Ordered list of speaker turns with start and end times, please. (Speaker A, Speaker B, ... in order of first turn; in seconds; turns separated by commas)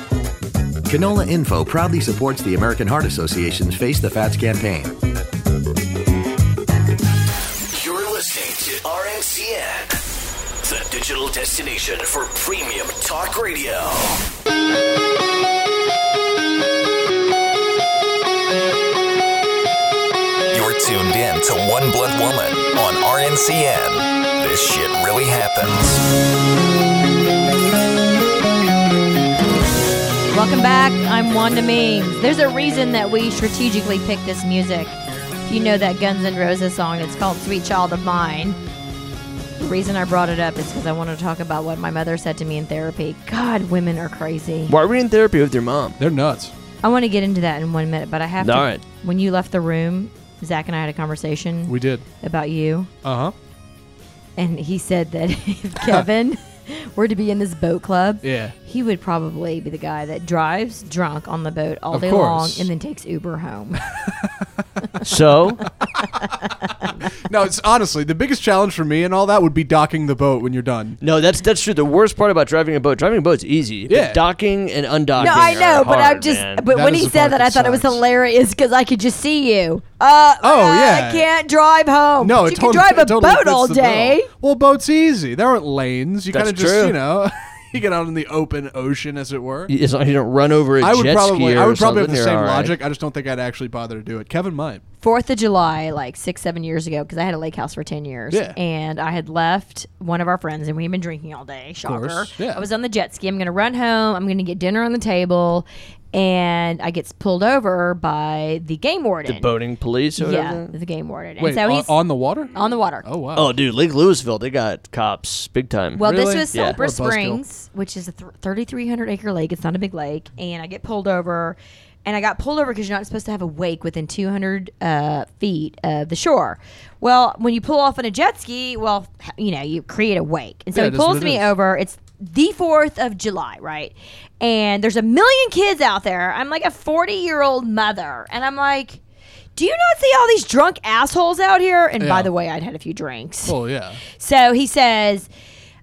Speaker A: 0.9-4.9, Speaker B: 7.7-10.0, Speaker B: 10.6-14.2, Speaker C: 20.5-26.0, Speaker D: 30.3-34.9, Speaker D: 35.5-38.6, Speaker D: 39.6-44.7, Speaker E: 44.7-46.0, Speaker F: 46.0-46.5, Speaker D: 46.8-52.9, Speaker E: 48.4-48.8, Speaker F: 51.7-52.0, Speaker F: 53.0-53.3, Speaker D: 54.4-63.8, Speaker F: 58.2-58.5, Speaker F: 61.9-62.7, Speaker E: 65.0-65.7, Speaker F: 67.2-71.0, Speaker E: 71.0-76.7, Speaker F: 73.9-74.2, Speaker D: 75.2-84.3, Speaker F: 75.2-75.6, Speaker F: 76.7-78.0, Speaker F: 80.4-81.3, Speaker F: 82.2-89.7, Speaker E: 86.3-87.0, Speaker E: 89.7-92.8, Speaker F: 90.8-94.8, Speaker D: 95.0-109.5, Speaker F: 98.3-98.6, Speaker F: 101.8-102.7, Speaker E: 109.3-110.7, Speaker D: 110.2-111.9, Speaker F: 111.4-112.5, Speaker D: 112.5-113.0, Speaker F: 113.0-113.5, Speaker E: 113.3-116.0, Speaker D: 116.0-139.0, Speaker F: 116.0-117.4, Speaker F: 130.7-131.5, Speaker D: 139.6-143.6, Speaker F: 142.0-142.3, Speaker F: 143.4-144.0, Speaker D: 144.1-145.3